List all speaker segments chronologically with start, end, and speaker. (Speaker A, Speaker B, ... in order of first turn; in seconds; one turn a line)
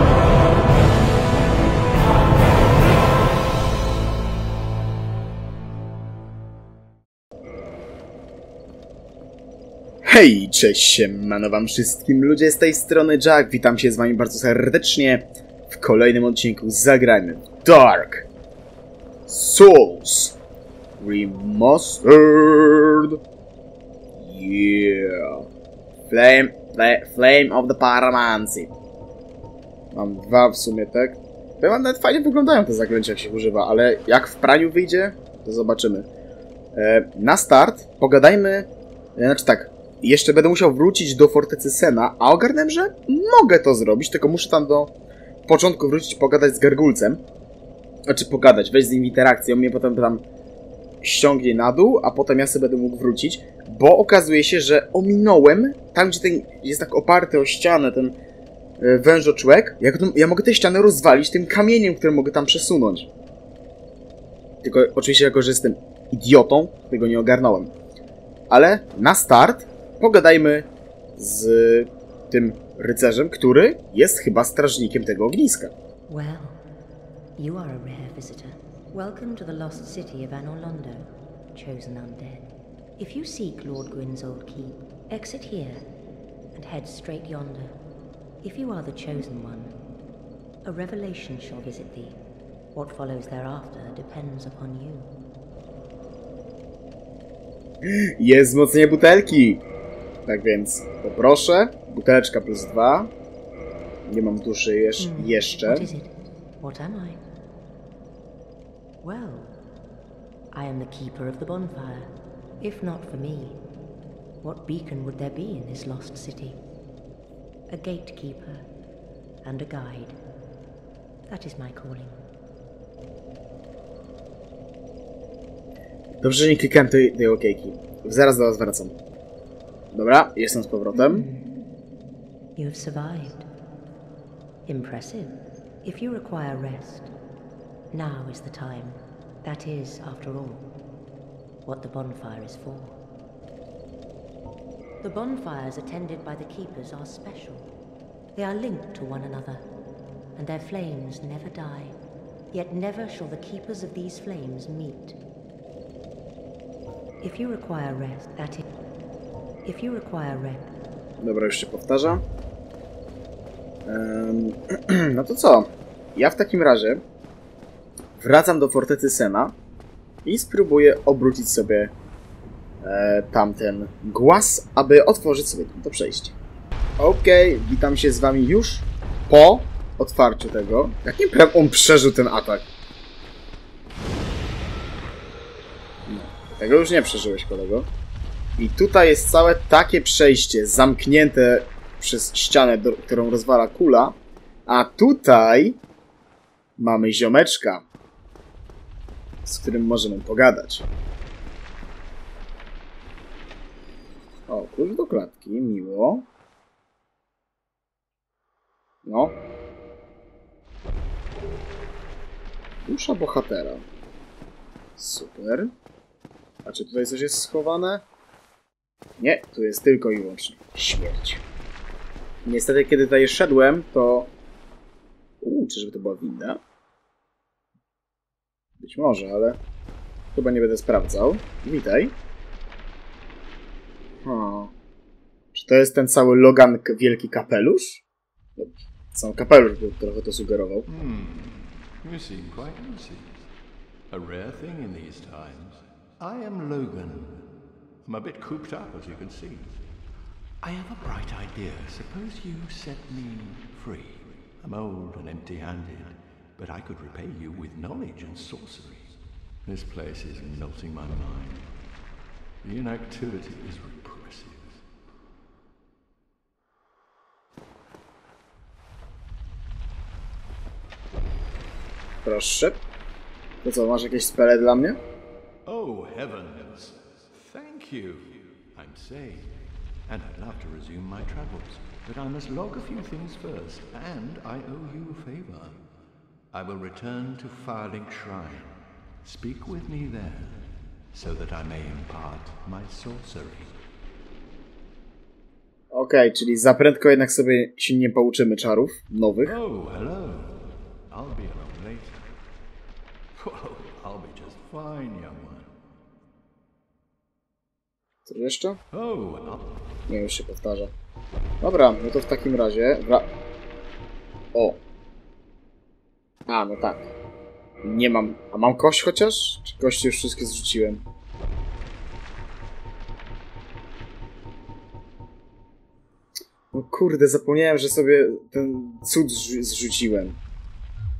Speaker A: 10.0-18.3
Speaker A: 19.3-20.4
Speaker A: 21.0-23.2
Speaker A: 24.1-25.4
Speaker A: 26.1-28.7
Speaker A: 29.9-36.1
Speaker A: 36.7-44.9
Speaker A: 45.5-47.2
Speaker A: 48.1-50.2
Speaker A: 51.0-58.2
Speaker A: 58.8-63.1
Speaker A: 64.6-67.7
Speaker A: 68.5-75.7
Speaker B: 76.1-76.6
Speaker B: 77.4-85.8
Speaker B: 86.5-87.8
Speaker B: 88.4-89.7
Speaker B: 90.6-92.2
Speaker B: 92.7-95.1
Speaker A: 97.8-99.6
Speaker A: 100.2-103.1
Speaker A: 104.0-105.9
Speaker B: 105.0-107.2
Speaker B: 109.0-109.6
Speaker B: 110.5-113.6
Speaker B: 114.4-116.6
Speaker B: 117.7-118.6
Speaker B: 119.4-120.2
Speaker B: 121.3-122.2
Speaker A: 126.2-128.9
Speaker A: 129.9-131.2
Speaker B: 130.9-131.5
Speaker B: 132.6-133.5
Speaker B: 134.7-137.1
Speaker B: 137.9-140.7
Speaker B: 141.6-143.0
Speaker B: 145.0-147.7
Speaker B: 148.3-149.6
Speaker B: 150.3-151.9
Speaker B: 152.5-155.2
Speaker B: 157.2-158.7
Speaker B: 159.6-160.7
Speaker A: 161.2-162.2
Speaker A: 163.8-167.0
Speaker A: 168.2-169.6
Speaker A: 170.2-171.9
Speaker A: 172.8-176.3
Speaker A: 177.0-182.7
Speaker A: 186.1-187.9
Speaker A: 188.6-195.8
Speaker A: 196.8-197.8
Speaker A: 199.4-200.8
Speaker A: 204.5-206.3
Speaker A: 209.0-209.4
Speaker A: 212.8-213.8
Speaker A: 215.0-215.7
Speaker A: 216.6-218.0
Speaker A: 219.2-221.4
Speaker A: 222.4-224.3
Speaker A: 225.4-226.6
Speaker A: 228.8-229.6
Speaker A: 230.3-232.1
Speaker A: 234.2-234.7
Speaker A: 235.5-238.0
Speaker A: 238.6-240.9
Speaker C: 240.9-243.4
Speaker C: 244.1-247.5
Speaker C: 248.0-249.8
Speaker C: 250.6-259.1
Speaker C: 259.6-261.7
Speaker C: 262.6-264.8
Speaker A: 272.2-272.8
Speaker A: 273.6-275.0
Speaker C: 275.6-279.5
Speaker C: 280.1-285.8
Speaker C: 286.5-293.7
Speaker A: 295.9-299.6
Speaker C: 299.4-302.2
Speaker C: 303.4-305.7
Speaker A: 308.2-308.8
Speaker C: 308.9-309.9
Speaker A: 310.1-310.9
Speaker A: 311.6-313.3
Speaker A: 314.5-314.8
Speaker A: 316.5-317.1
Speaker A: 317.8-321.0
Speaker A: 326.7-330.4